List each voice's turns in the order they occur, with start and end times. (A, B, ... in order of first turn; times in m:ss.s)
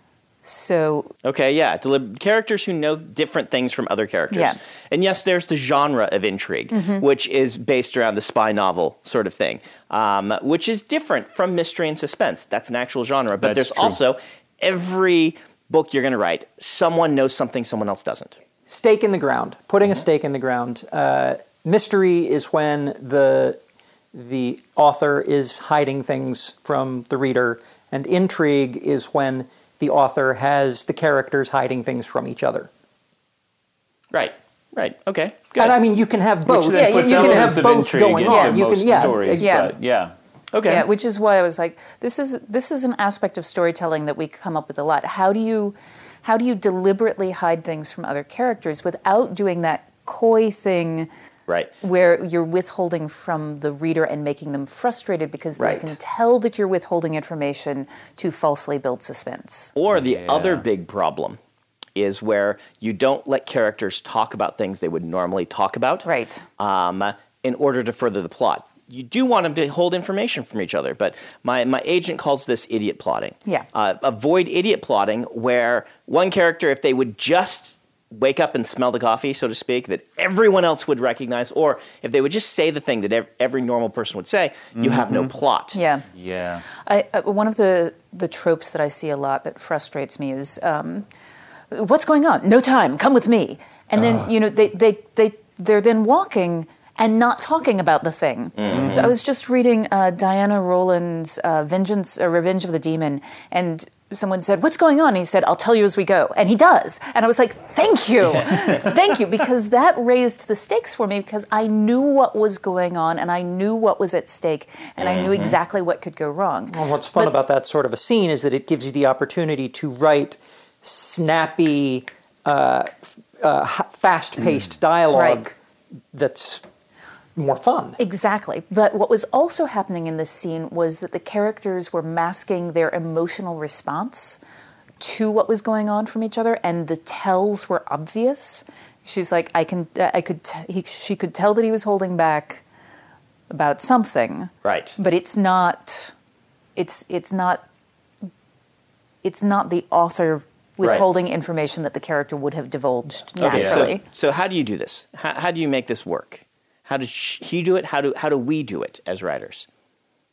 0:00.4-0:01.1 A
0:01.2-0:18.4 B
0:04.3-0:04.6 A
0:06.7-0:07.0 A
0:13.4-0:14.0 C
0:18.6-0:23.6 D
0:24.1-0:32.7 D
0:34.1-0:35.8 B
0:35.6-0:39.7 D
0:36.4-0:40.1 C
0:36.7-0:37.7 A
0:38.2-0:39.7 A
0:40.5-0:40.8 B
0:40.6-0:51.1 A
0:51.8-0:59.7 A
0:55.6-0:55.9 B
0:59.8-1:01.4 B
0:59.9-1:00.6 C
1:02.0-1:06.0 B
1:06.0-1:06.4 A
1:06.6-1:25.8 B
1:24.8-1:25.3 C
1:25.7-1:26.0 A
1:26.1-1:26.6 C
1:26.7-1:31.1 A
1:31.7-1:57.3 A
1:34.0-1:34.3 C
1:38.6-1:39.1 B
1:38.7-1:39.1 C
1:55.0-1:55.6 B
1:56.7-2:05.6 D
2:05.1-2:05.4 A
2:06.1-2:06.6 D
2:07.4-2:08.0 D
2:08.0-2:14.4 A
2:15.0-2:22.6 A
2:23.5-2:26.1 A
2:24.6-2:25.0 B
2:26.8-2:27.6 A
2:29.2-2:34.0 A
2:33.4-2:39.6 B
2:33.4-2:33.9 C